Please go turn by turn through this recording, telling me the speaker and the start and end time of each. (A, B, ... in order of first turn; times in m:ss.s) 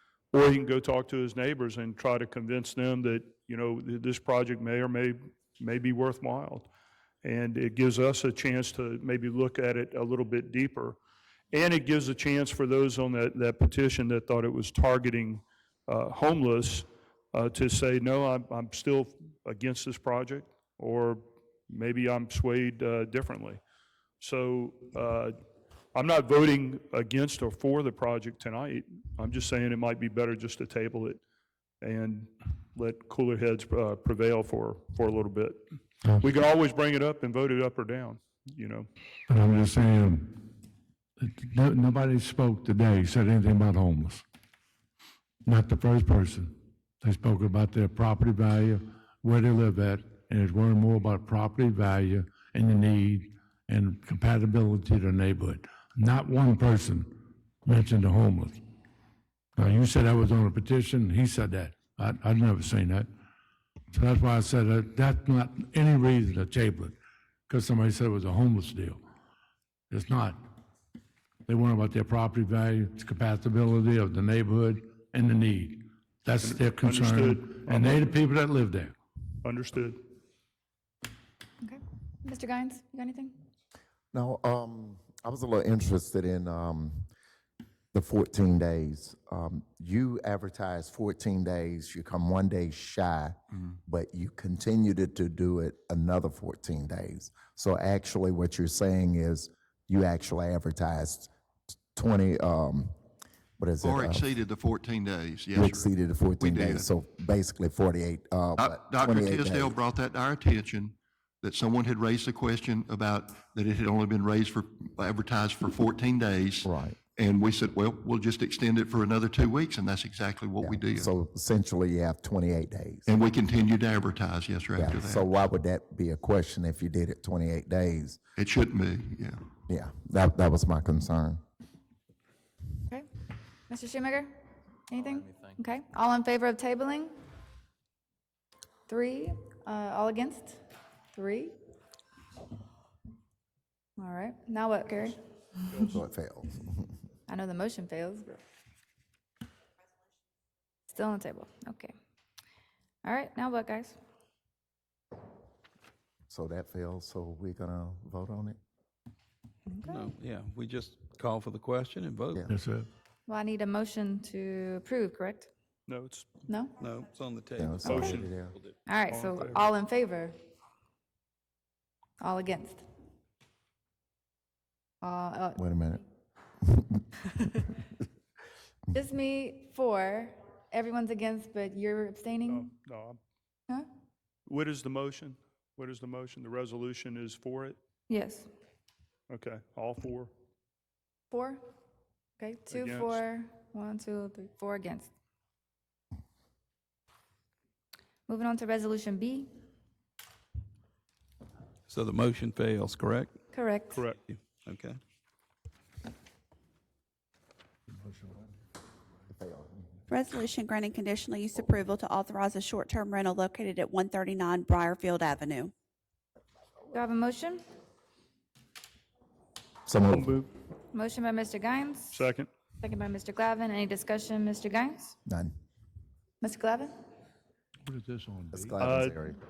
0:00.3-0:06.7 A
0:07.2-0:11.0 A
0:11.5-0:23.6 A
0:24.2-0:25.3 A
0:25.9-0:31.2 A
0:31.8-0:35.6 A
0:36.0-0:36.3 B
0:36.2-0:38.9 A
0:39.3-0:40.4 B
0:41.2-0:44.2 B
0:45.4-0:57.1 B
0:57.6-0:58.6 B
0:59.6-1:03.1 B
1:03.9-1:06.9 B
1:07.5-1:09.0 B
1:09.9-1:10.4 B
1:11.5-1:18.9 B
1:16.4-1:18.1 A
1:19.4-1:20.0 A
1:21.6-1:23.3 C
1:24.1-1:27.1 D
1:27.9-1:41.3 D
1:41.9-1:42.9 D
1:43.6-1:44.3 D
1:43.8-1:46.9 E
1:45.5-1:49.8 D
1:48.6-2:01.1 E
1:56.6-1:57.0 D
2:00.6-2:03.1 D
2:03.1-2:05.3 E
2:04.8-2:08.2 D
2:08.4-2:09.4 E
2:09.7-2:11.4 D
2:13.7-2:14.4 C
2:14.9-2:17.2 C
2:18.9-2:20.6 C
2:21.1-2:21.5 C
2:24.0-2:25.2 C
2:25.8-2:26.9 D
2:27.3-2:28.4 C
2:30.9-2:31.9 C
2:33.0-2:34.0 C
2:36.3-2:38.6 D
2:39.7-2:40.1 C
2:39.8-2:42.4 F
2:42.5-2:42.9 B
2:43.3-2:45.5 C
2:45.9-2:46.3 A
2:46.5-2:46.7 C
2:46.8-2:48.7 F
2:47.6-2:48.5 D
2:47.8-2:48.3 A
2:48.8-2:50.3 C
2:49.1-2:49.6 A
2:52.2-2:52.8 C
2:55.0-2:55.6 C
2:55.6-2:56.0 D
2:56.7-2:56.9 D
2:58.9-3:02.7 C
3:02.5-3:03.2 A
3:04.5-3:07.8 A
3:08.1-3:08.5 C
3:09.3-3:10.3 A
3:11.3-3:11.6 C
3:12.4-3:15.1 C
3:12.7-3:13.2 A
3:18.3-3:19.5 C
3:21.9-3:23.4 F
3:23.5-3:24.0 C
3:23.9-3:24.2 A
3:24.3-3:25.0 F
3:29.3-3:29.8 D
3:30.1-3:35.7 G
3:36.9-3:37.6 C
3:39.8-3:40.4 D
3:40.1-3:40.5 A
3:40.9-3:42.2 C
3:42.1-3:42.5 A
3:42.8-3:45.2 C
3:45.2-3:45.5 D
3:46.4-3:46.9 C
3:47.9-3:48.8 B
3:48.5-3:49.4 D
3:48.8-3:49.2 A